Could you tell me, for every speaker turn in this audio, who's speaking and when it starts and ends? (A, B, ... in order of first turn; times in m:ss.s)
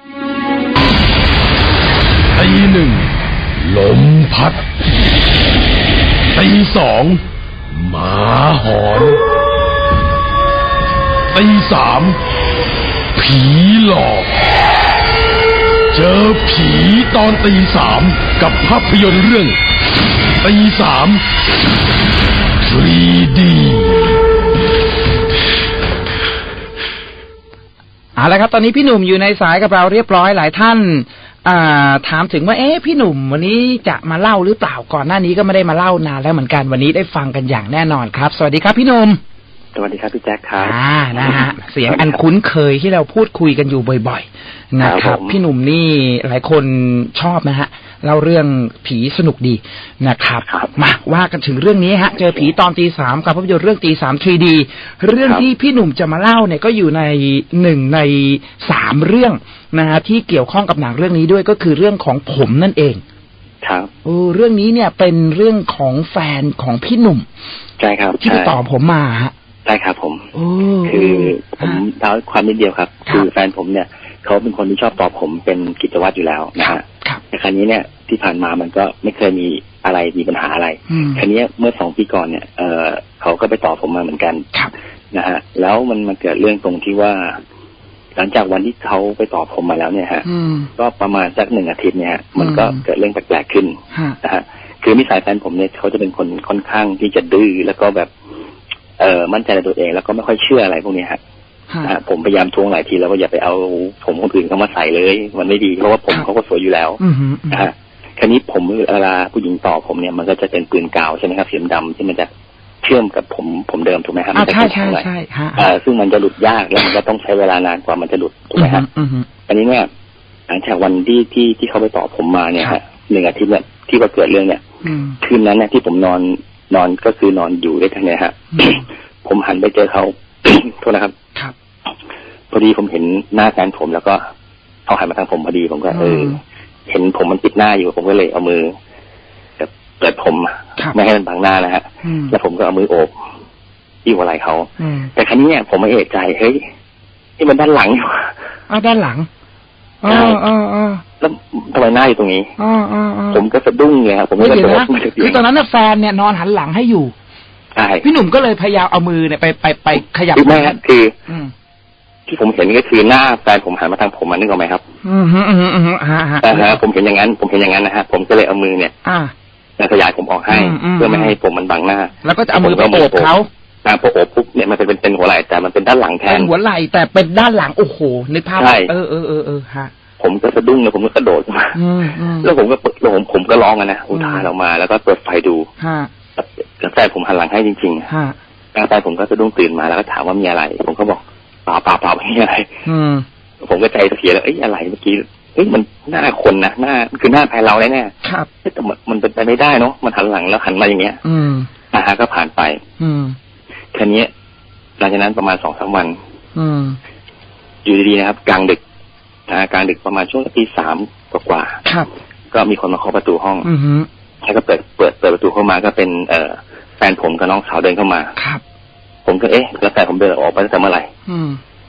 0:02.3-0:04.7 A
0:06.3-0:09.2 A
0:11.3-0:12.2 A
0:13.2-0:14.4 A
0:15.9-0:19.6 A
0:20.4-0:21.2 A
0:22.6-0:24.2 A
0:28.2-0:39.2 B
0:39.8-0:42.2 C
0:40.6-1:03.0 B
0:44.8-0:45.4 C
1:03.6-1:03.9 C
1:04.0-1:07.3 B
1:07.8-1:08.6 C
1:08.2-1:09.3 B
1:09.7-1:10.3 C
1:10.3-1:11.8 B
1:10.8-1:24.5 C
1:16.6-1:17.2 B
1:20.9-1:21.2 B
1:25.1-1:27.4 C
1:28.2-1:38.1 C
1:30.2-1:30.7 B
1:32.4-1:32.8 B
1:39.0-1:41.2 C
1:41.8-1:52.3 C
1:47.0-1:47.7 B
1:52.8-1:58.8 C
1:54.3-1:55.7 B
1:58.6-1:59.3 B
1:59.5-1:59.9 C
2:00.5-2:04.6 C
2:04.8-2:05.2 B
2:05.2-2:11.1 C
2:12.5-2:14.2 C
2:14.9-2:18.7 C
2:15.9-2:16.4 B
2:19.6-2:23.1 C
2:22.0-2:22.4 B
2:24.0-2:26.6 C
2:24.8-2:25.1 B
2:27.4-2:28.3 C
2:28.7-2:29.3 B
2:30.0-2:31.0 B
2:30.1-2:30.4 C
2:31.2-2:32.5 C
2:32.6-2:33.5 B
2:33.3-2:35.4 C
2:34.4-2:37.1 B
2:37.8-2:38.1 C
2:38.0-2:41.5 B
2:40.4-2:41.1 C
2:42.3-2:44.8 C
2:45.0-2:46.8 B
2:46.4-2:48.9 C
2:49.0-2:49.3 B
2:49.8-2:53.3 C
2:50.5-2:51.4 B
2:52.2-2:53.5 B
2:53.8-2:56.5 C
2:56.3-2:59.9 B
2:58.6-2:58.9 C
3:00.2-3:01.8 C
3:01.8-3:02.5 B
3:02.4-3:05.7 C
3:04.1-3:04.5 B
3:05.8-3:06.1 B
3:06.4-3:08.1 C
3:08.1-3:08.4 B
3:08.8-3:12.8 C
3:12.8-3:13.2 B
3:13.6-3:18.1 C
3:18.6-3:21.2 C
3:21.2-3:21.7 B
3:21.9-3:22.8 C
3:23.0-3:23.4 B
3:23.9-3:24.3 C
3:25.0-3:26.2 C
3:26.6-3:27.0 B
3:27.8-3:28.8 C
3:29.5-3:31.8 C
3:31.8-3:32.1 B
3:32.5-3:33.7 C
3:33.6-3:34.1 B
3:34.4-3:38.4 C
3:38.4-3:38.6 B
3:39.3-3:41.1 C
3:41.3-3:41.6 B